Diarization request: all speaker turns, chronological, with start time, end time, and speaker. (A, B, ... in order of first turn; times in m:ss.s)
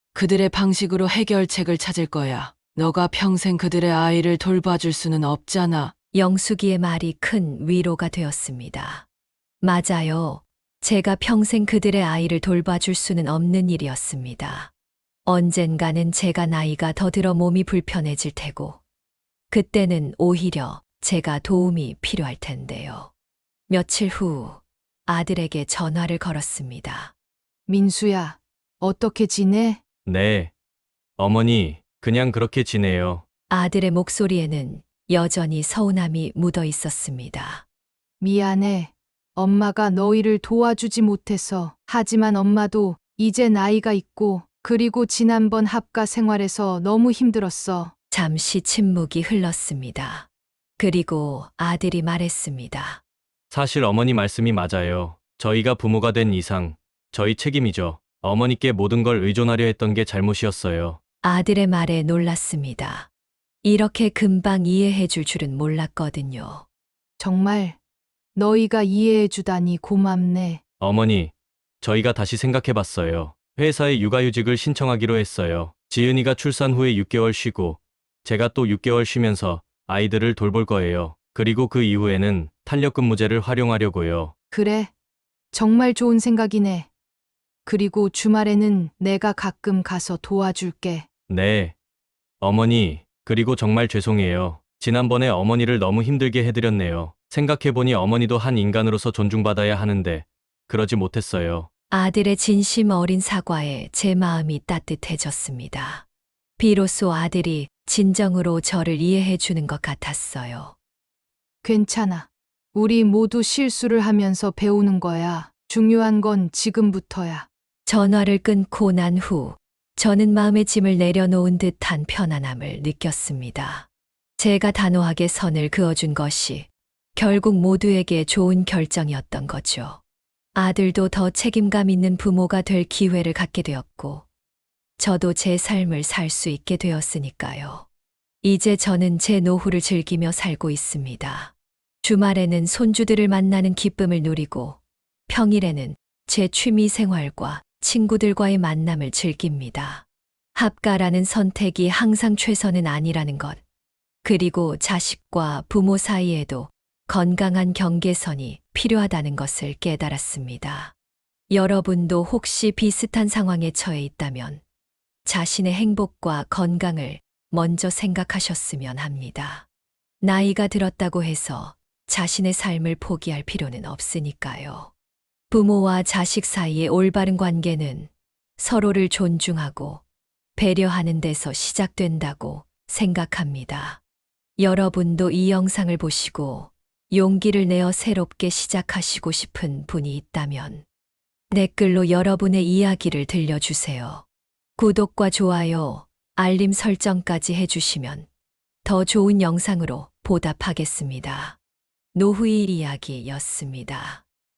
0:00.2-0:05.9 A
0:06.1-0:09.1 B
0:09.6-0:14.7 B
0:15.2-0:18.8 B
0:19.5-0:23.1 B
0:23.7-0:27.1 B
0:27.7-0:29.8 C
0:30.1-0:30.5 D
0:31.2-0:33.2 D
0:33.5-0:37.6 B
0:38.2-0:47.9 C
0:48.1-0:50.3 B
0:50.8-0:53.0 B
0:53.5-1:01.0 D
1:01.2-1:03.1 B
1:03.6-1:06.6 B
1:07.2-1:07.8 C
1:08.4-1:10.6 C
1:10.8-1:24.3 D
1:24.5-1:24.9 C
1:25.5-1:26.9 C
1:27.6-1:31.1 C
1:31.3-1:31.7 D
1:32.4-1:41.7 D
1:41.9-1:46.0 B
1:46.6-1:50.8 B
1:51.6-1:57.5 C
1:57.9-2:03.9 B
2:04.4-2:10.0 B
2:10.6-2:14.2 B
2:15.0-2:17.9 B
2:18.4-2:33.6 B
2:34.2-2:40.9 B
2:41.5-2:44.6 B
2:45.2-2:49.7 B
2:50.2-2:54.9 B
2:55.5-3:00.0 B
3:00.6-3:04.0 B
3:04.6-3:10.8 B
3:11.5-3:14.2 B
3:14.8-3:18.3 B
3:18.8-3:21.6 B
3:22.1-3:24.2 B